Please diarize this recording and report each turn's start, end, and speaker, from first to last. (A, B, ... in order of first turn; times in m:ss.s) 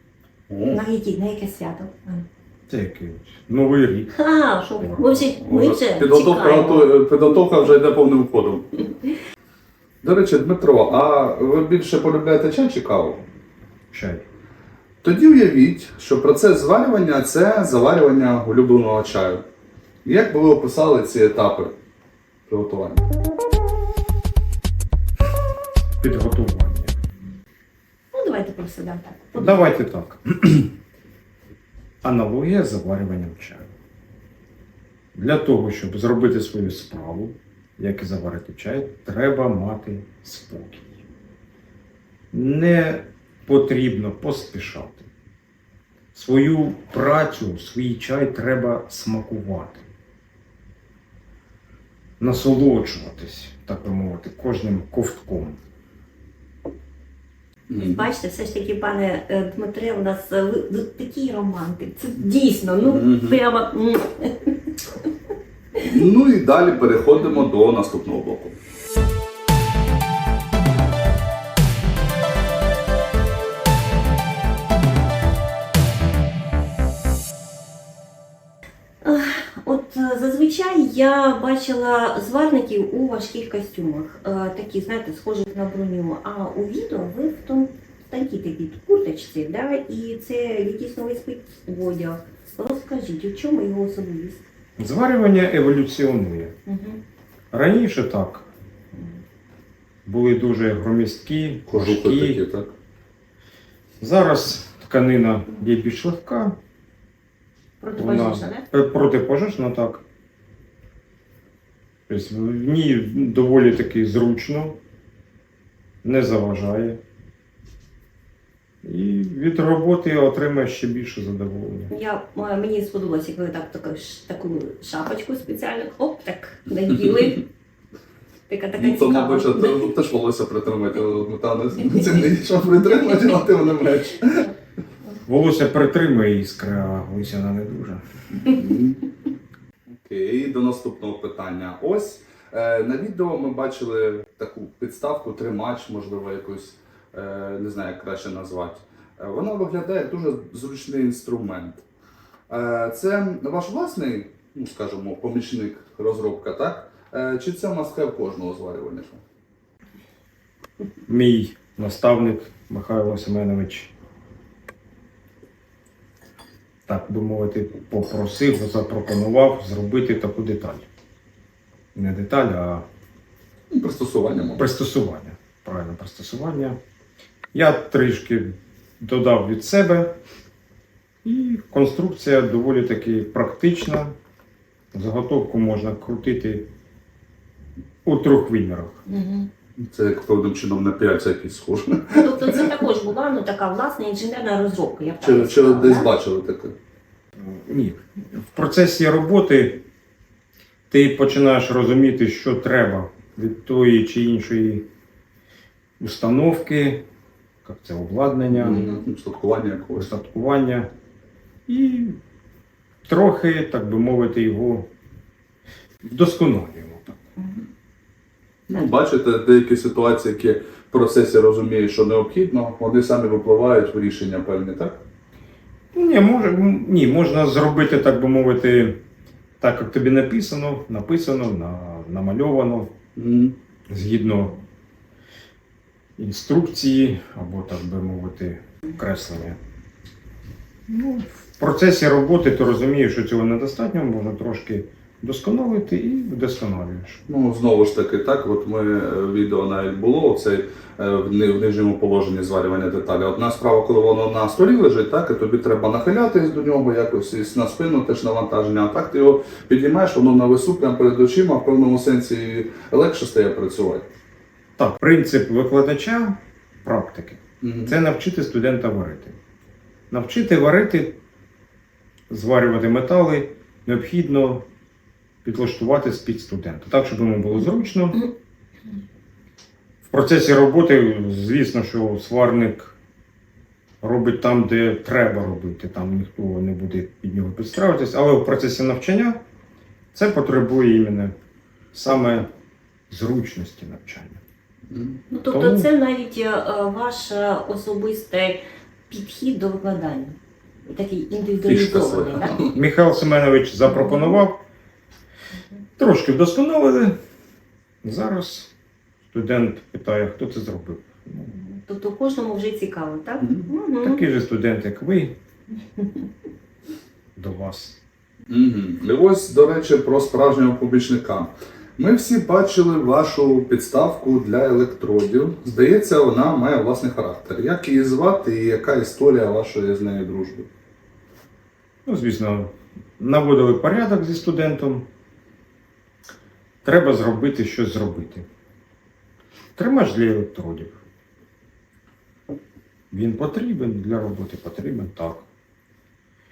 0:00.5-0:00.8 A
0:00.7-0:02.2 B
0:02.7-0:05.4 C
0:04.1-0:06.9 B
0:05.4-0:08.8 A
0:10.0-0:13.2 A
0:13.9-0:14.2 C
0:15.0-0:19.4 A
0:20.0-0:21.7 A
0:22.5-0:23.0 A
0:26.0-0:27.0 C
0:28.1-0:29.7 B
0:29.4-0:30.7 C
0:32.0-0:33.7 C
0:35.1-0:40.9 C
0:42.3-0:45.1 C
0:46.1-0:49.8 C
0:52.2-0:55.6 C
0:57.7-0:58.1 A
0:57.8-1:04.6 B
1:02.8-1:03.4 A
1:05.9-1:08.5 A
1:19.0-1:34.4 B
1:34.8-1:36.5 C
1:36.6-1:37.0 B
1:37.5-1:38.4 C
1:40.0-1:42.4 C
1:41.7-1:42.7 A
1:44.0-1:46.6 C
1:47.8-1:48.6 B
1:48.0-1:50.0 C
1:52.1-1:54.8 C
1:56.0-1:57.0 C
1:58.8-2:01.9 C
2:01.9-2:07.4 B
2:08.5-2:09.9 B
2:08.8-2:14.5 A
2:15.2-2:18.0 C
2:18.5-2:19.0 A
2:19.9-2:31.8 A
2:32.5-2:39.2 A
2:41.1-2:43.9 C
2:46.8-2:50.9 C
2:51.9-2:52.9 C
2:53.7-2:54.6 A
2:54.5-2:56.8 C
2:57.5-3:00.2 C
3:01.2-3:04.1 C
3:04.9-3:06.7 C
3:08.0-3:09.0 C
3:09.1-3:09.5 B
3:09.8-3:12.7 A
3:12.1-3:16.1 B
3:15.2-3:16.7 A
3:17.4-3:19.8 C
3:20.9-3:24.9 C
3:26.0-3:27.0 C
3:27.6-3:28.9 C
3:28.5-3:30.1 A
3:30.0-3:30.9 C
3:31.7-3:32.2 C
3:33.0-3:34.9 C
3:36.0-3:37.2 C
3:37.4-3:37.6 B
3:38.7-3:45.0 A
3:45.9-3:49.0 C
3:49.6-3:52.9 C
3:53.2-3:53.5 A
3:53.9-3:54.5 C
3:56.2-3:59.6 C
4:00.9-4:07.2 C
4:07.3-4:24.1 A
4:24.8-4:29.4 C
4:27.6-4:27.9 A
4:30.1-4:31.2 C
4:32.3-4:34.6 C
4:35.4-4:38.2 C
4:40.0-4:42.9 C
4:44.0-4:49.4 C
4:50.1-4:51.3 C
4:51.9-4:52.5 C
4:53.1-4:54.4 C
4:54.9-4:55.2 A
4:55.3-5:02.6 B
4:55.5-4:55.9 C
5:01.6-5:02.8 A
5:02.7-5:04.6 C
5:03.8-5:04.4 B
5:06.0-5:07.2 C
5:08.0-5:08.7 C
5:09.3-5:11.5 C
5:11.5-5:14.3 B
5:13.4-5:13.7 A
5:14.0-5:15.4 C
5:15.9-5:16.2 B
5:17.3-5:18.0 C
5:18.5-5:30.7 A
5:32.0-5:35.1 C
5:36.8-5:38.4 C
5:39.8-5:41.0 C
5:43.1-5:45.4 C